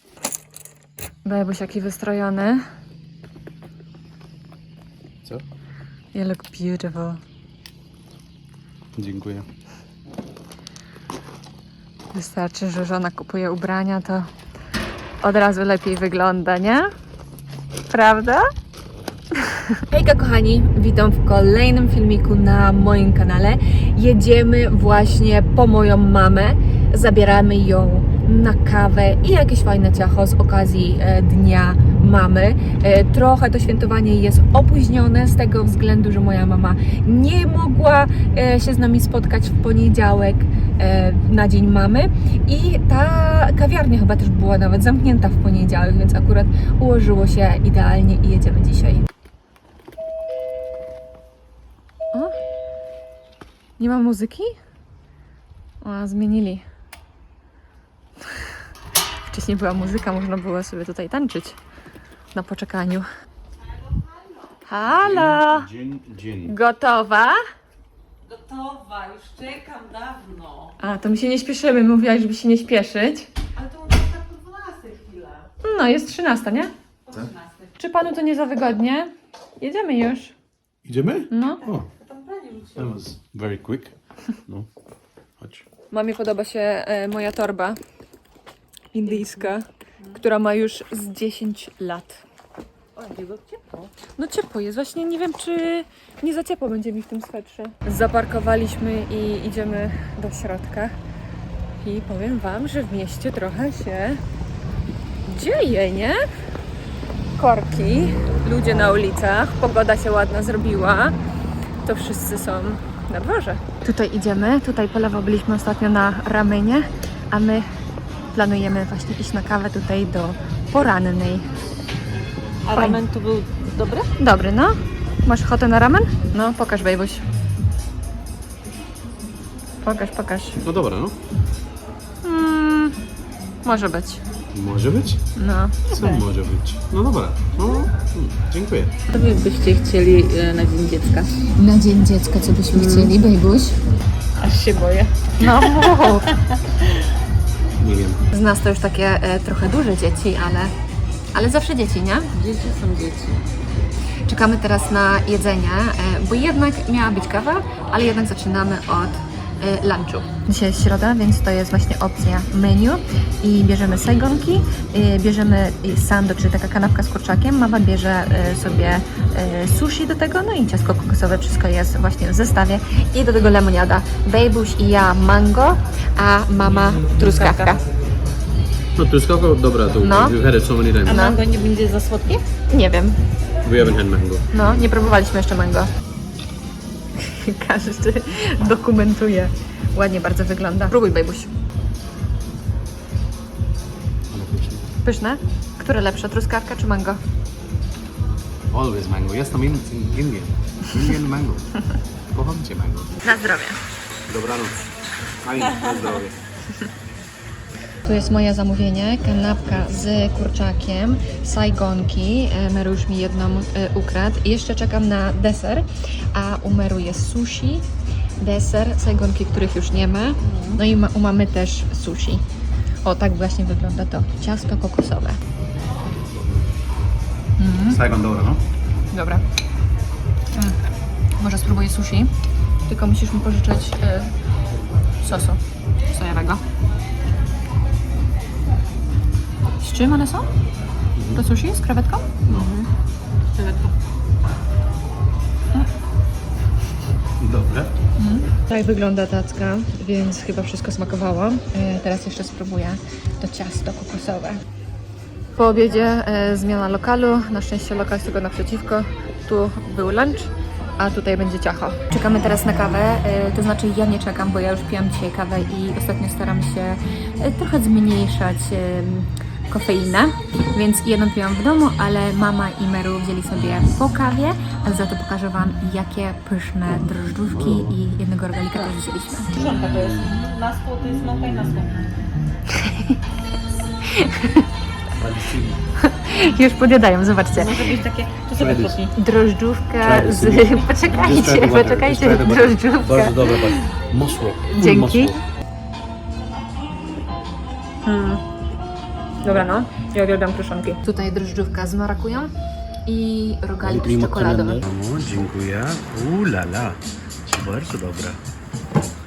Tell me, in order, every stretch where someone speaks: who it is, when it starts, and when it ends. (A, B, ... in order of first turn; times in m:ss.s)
0:01.2-0:02.6 A
0:06.1-0:07.2 A
0:09.0-0:09.4 B
0:12.1-0:14.3 A
0:15.2-0:16.9 A
0:17.9-0:18.4 A
0:19.8-0:49.0 A
0:53.8-0:54.5 A
0:55.8-0:56.6 A
0:59.2-1:01.6 A
1:02.3-1:03.1 A
1:04.6-1:05.7 A
1:04.8-1:06.5 B
1:06.4-1:07.4 A
1:08.2-1:10.7 C
1:10.8-1:13.3 A
1:13.6-1:15.5 C
1:15.6-1:16.7 A
1:17.0-1:17.7 C
1:17.8-1:20.3 A
1:20.8-1:21.9 B
1:21.3-1:21.6 A
1:22.0-1:23.0 C
1:22.8-1:23.9 B
1:25.4-1:25.6 B
1:25.9-1:27.8 A
1:28.9-1:32.2 A
1:29.0-1:29.5 C
1:32.9-1:33.9 C
1:34.1-1:40.9 A
1:41.8-1:44.2 A
1:45.2-1:46.2 A
1:47.4-1:51.1 A
1:51.8-1:57.7 A
1:58.3-2:01.5 A
2:02.6-2:04.1 C
2:02.7-2:03.0 A
2:04.2-2:07.2 A
2:09.8-2:10.6 A
2:10.6-2:11.1 B
2:12.2-2:13.0 A
2:13.6-2:14.2 A
2:14.5-2:15.2 B
2:15.4-2:15.8 A
2:15.9-2:18.9 B
2:15.9-2:16.2 C
2:19.1-2:21.5 C
2:21.5-2:23.8 A
2:22.7-2:23.1 C
2:24.4-2:26.9 C
2:25.4-2:26.3 A
2:27.8-2:28.2 B
2:28.3-2:30.7 A
2:31.3-2:32.3 A
2:32.3-2:33.4 C
2:34.2-2:57.8 A
2:57.2-2:57.8 C
2:59.0-3:01.2 B
3:00.0-3:00.4 A
3:01.0-3:02.4 C
3:01.0-3:01.4 A
3:02.7-3:03.2 A
3:03.6-3:04.8 B
3:04.5-3:05.9 A
3:07.2-3:11.5 A
3:14.3-3:14.9 B
3:15.0-3:17.2 A
3:18.7-3:21.7 B
3:22.3-3:23.2 B
3:23.2-3:23.8 A
3:24.3-3:24.8 B
3:25.4-3:26.4 B
3:28.0-3:37.8 A
3:38.4-3:42.4 A
3:40.4-3:40.8 C
3:43.0-3:45.4 A
3:47.6-3:48.0 A
3:47.8-3:48.6 B
3:49.1-3:49.4 A
3:51.4-3:52.3 A
3:52.9-3:54.3 A
3:55.2-3:55.6 A
3:56.1-3:56.6 A
3:59.8-4:00.5 A
4:01.2-4:01.4 B
4:01.3-4:02.8 A
4:02.4-4:02.7 B
4:03.5-4:03.9 C
4:07.4-4:07.9 B
4:08.2-4:14.6 A
4:15.6-4:39.6 A
4:37.4-4:38.0 B
4:39.5-4:42.0 C
4:42.7-4:43.2 A
4:44.0-4:44.6 A
4:45.2-4:45.8 B
4:46.0-4:47.8 A
4:47.5-4:49.1 C
4:48.5-4:49.0 B
4:49.1-4:53.8 A
4:50.0-4:55.4 B
4:54.6-4:55.4 A
4:58.0-4:58.4 A
4:59.4-5:02.5 A
5:03.0-5:04.8 A
5:03.8-5:08.4 B